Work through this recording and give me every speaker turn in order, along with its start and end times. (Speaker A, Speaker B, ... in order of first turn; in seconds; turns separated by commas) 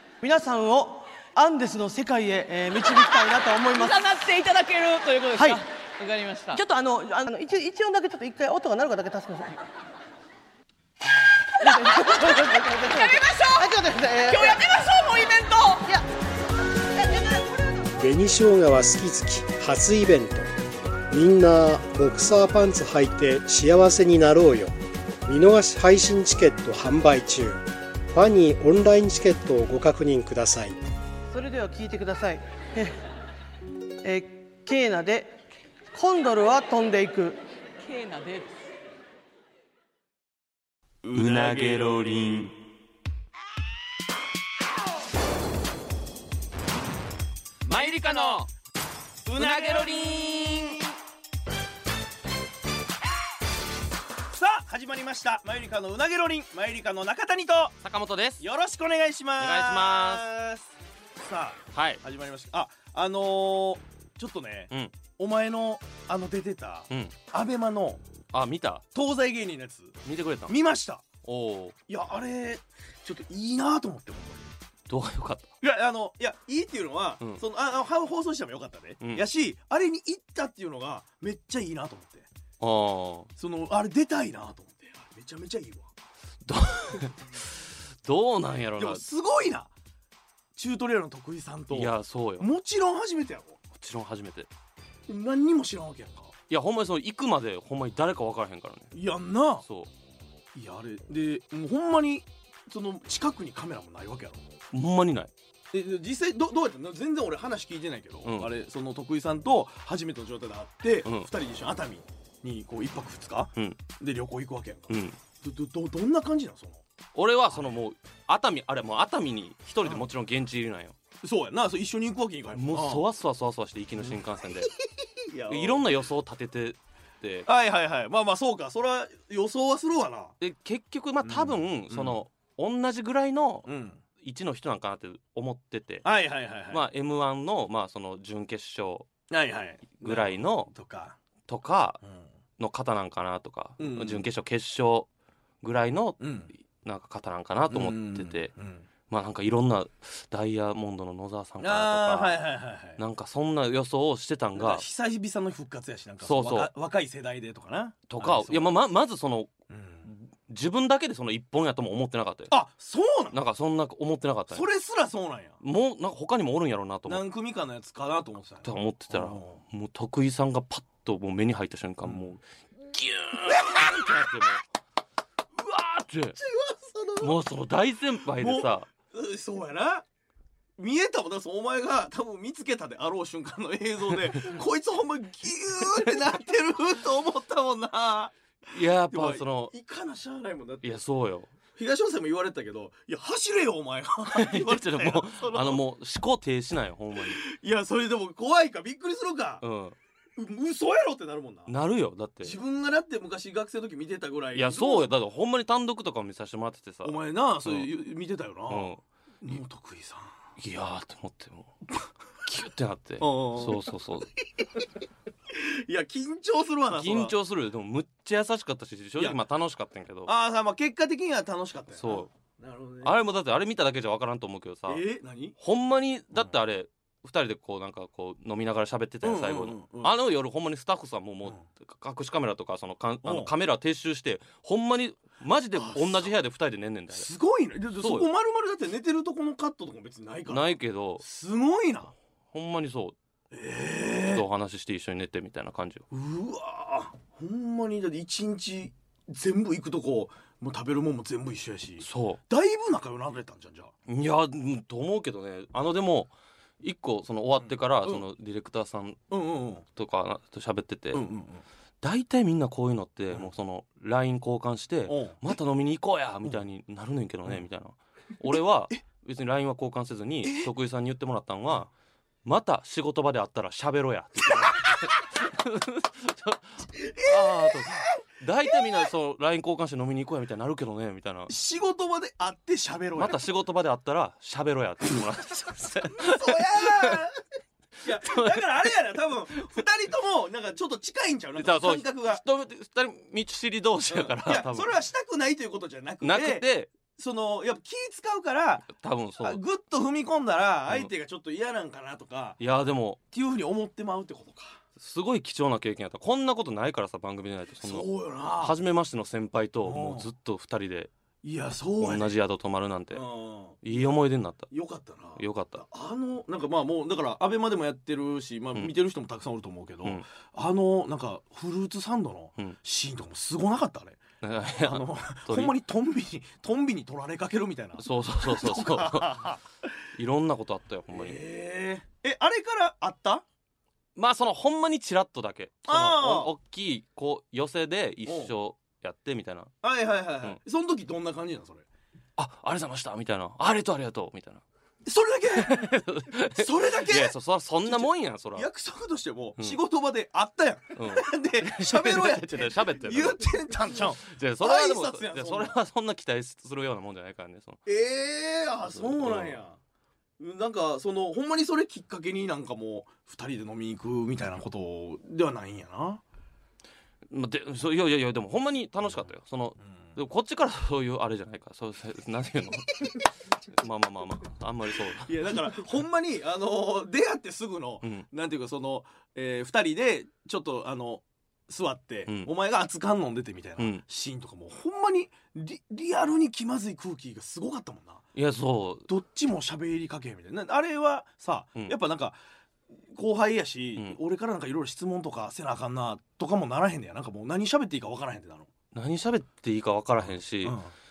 Speaker A: 0.2-4.1, Speaker B: 3.6-6.6, Speaker A: 5.3-5.6, Speaker A: 6.5-9.6, Speaker A: 11.6-14.7, Speaker B: 11.6-15.9, Speaker C: 17.9-20.5, Speaker C: 21.1-24.7, Speaker C: 25.2-30.8, Speaker A: 31.3-33.0, Speaker A: 34.0-35.4, Speaker A: 35.9-37.4, Speaker B: 37.8-38.5, Speaker D: 41.0-42.5, Speaker E: 41.1-41.8, Speaker D: 47.6-48.5, Speaker E: 47.8-48.4, Speaker E: 49.2-50.8, Speaker D: 49.3-50.8, Speaker E: 54.3-57.8, Speaker D: 57.8-58.4, Speaker E: 58.4-68.0, Speaker D: 59.4-60.2, Speaker D: 61.7-62.0, Speaker D: 66.9-67.1, Speaker D: 68.3-68.8, Speaker E: 68.9-71.1, Speaker D: 70.0-70.5, Speaker D: 71.2-71.8, Speaker E: 71.9-74.5, Speaker D: 74.9-75.5, Speaker E: 75.6-82.3, Speaker D: 82.6-83.3, Speaker E: 83.4-85.9, Speaker D: 86.4-87.5, Speaker D: 88.0-89.0, Speaker E: 88.8-89.7, Speaker E: 90.5-93.6, Speaker D: 91.7-92.5, Speaker D: 93.7-94.5, Speaker E: 95.1-96.3, Speaker D: 96.5-98.9, Speaker E: 98.9-99.6, Speaker D: 99.6-99.9, Speaker E: 100.5-104.4, Speaker D: 104.7-105.3, Speaker E: 105.7-116.8, Speaker D: 108.2-108.5, Speaker D: 111.0-111.3, Speaker D: 114.9-115.2, Speaker D: 117.1-120.9, Speaker E: 121.2-123.0, Speaker D: 122.5-124.7, Speaker E: 125.2-125.9, Speaker D: 125.5-127.5, Speaker E: 127.5-130.3, Speaker D: 130.4-133.7, Speaker E: 131.2-132.2, Speaker E: 133.7-134.0, Speaker D: 134.2-136.0, Speaker E: 136.0-136.8, Speaker D: 136.7-139.1, Speaker E: 139.3-141.2, Speaker D: 140.0-140.7, Speaker D: 141.5-142.0, Speaker D: 142.6-145.1, Speaker E: 143.8-144.2, Speaker D: 145.6-146.2, Speaker E: 146.2-146.5, Speaker D: 146.8-148.5, Speaker E: 147.7-148.8, Speaker D: 149.1-152.4, Speaker E: 151.6-153.0, Speaker D: 153.0-154.8, Speaker E: 154.6-158.7, Speaker D: 156.2-156.7, Speaker D: 158.1-159.5, Speaker E: 159.7-160.1, Speaker D: 160.0-162.6, Speaker E: 162.5-163.4, Speaker D: 163.3-164.7, Speaker E: 164.5-165.6, Speaker D: 165.6-167.2, Speaker E: 167.1-169.6, Speaker D: 168.6-174.6, Speaker E: 172.0-172.3, Speaker E: 173.5-174.2, Speaker D: 175.6-176.4, Speaker E: 176.4-177.3, Speaker D: 177.2-178.9, Speaker E: 178.3-180.0, Speaker E: 180.8-188.3, Speaker D: 188.7-189.7, Speaker E: 189.1-191.0, Speaker D: 190.8-191.5, Speaker E: 191.7-195.8, Speaker D: 194.3-197.4, Speaker E: 197.3-199.6, Speaker D: 199.6-199.9, Speaker E: 200.3-201.7, Speaker D: 201.7-202.6, Speaker E: 202.4-205.1, Speaker D: 204.5-207.9, Speaker E: 207.0-210.3, Speaker D: 208.7-209.0, Speaker D: 210.6-211.7, Speaker D: 212.4-214.3, Speaker E: 213.2-213.8, Speaker E: 215.5-217.3, Speaker D: 216.9-220.3, Speaker E: 220.3-223.2, Speaker D: 221.9-222.3, Speaker D: 223.0-225.0, Speaker E: 224.9-225.6, Speaker D: 225.6-237.3, Speaker E: 229.2-230.1, Speaker E: 233.2-233.5, Speaker E: 235.8-236.3, Speaker E: 237.1-242.1, Speaker D: 238.0-238.3, Speaker D: 240.5-241.2, Speaker D: 242.5-243.1, Speaker E: 243.5-244.4, Speaker D: 244.3-246.0, Speaker E: 246.1-253.9, Speaker D: 252.0-252.4, Speaker D: 254.1-256.3, Speaker D: 256.8-259.2, Speaker E: 257.6-258.2, Speaker E: 259.3-259.8, Speaker D: 259.9-261.2, Speaker E: 261.1-261.6, Speaker D: 262.0-271.9, Speaker E: 265.1-265.4, Speaker E: 270.4-270.7, Speaker D: 272.4-281.5, Speaker E: 277.0-278.1, Speaker E: 281.5-283.4, Speaker D: 283.2-287.2, Speaker E: 286.2-287.4, Speaker E: 288.0-292.4, Speaker D: 288.2-288.9, Speaker D: 291.6-294.9, Speaker E: 294.1-302.6, Speaker D: 296.2-296.9, Speaker D: 299.0-299.6, Speaker D: 302.6-303.2, Speaker E: 303.3-304.8, Speaker D: 305.0-311.1, Speaker E: 307.8-308.8, Speaker E: 309.8-310.3, Speaker E: 311.4-312.3, Speaker D: 312.0-313.2, Speaker E: 313.1-314.1, Speaker D: 313.8-314.7, Speaker E: 314.7-324.2, Speaker D: 315.4-315.8, Speaker D: 324.4-325.7, Speaker E: 324.8-329.6, Speaker D: 328.0-329.5, Speaker D: 330.1-331.4, Speaker E: 331.1-333.4, Speaker D: 334.1-339.7, Speaker E: 335.9-336.5, Speaker E: 338.2-338.5, Speaker E: 339.8-341.8, Speaker D: 342.4-344.6, Speaker E: 345.1-345.7, Speaker D: 345.5-348.7, Speaker E: 346.5-355.7, Speaker D: 350.9-357.8, Speaker E: 357.9-359.8, Speaker D: 358.8-359.6, Speaker E: 360.4-366.2, Speaker D: 367.3-375.8, Speaker E: 369.9-370.1, Speaker E: 375.2-388.2, Speaker D: 382.2-382.5, Speaker D: 383.8-384.0, Speaker D: 388.3-389.1, Speaker E: 389.1-392.4, Speaker E: 393.1-398.7, Speaker D: 398.9-400.8, Speaker E: 400.2-400.9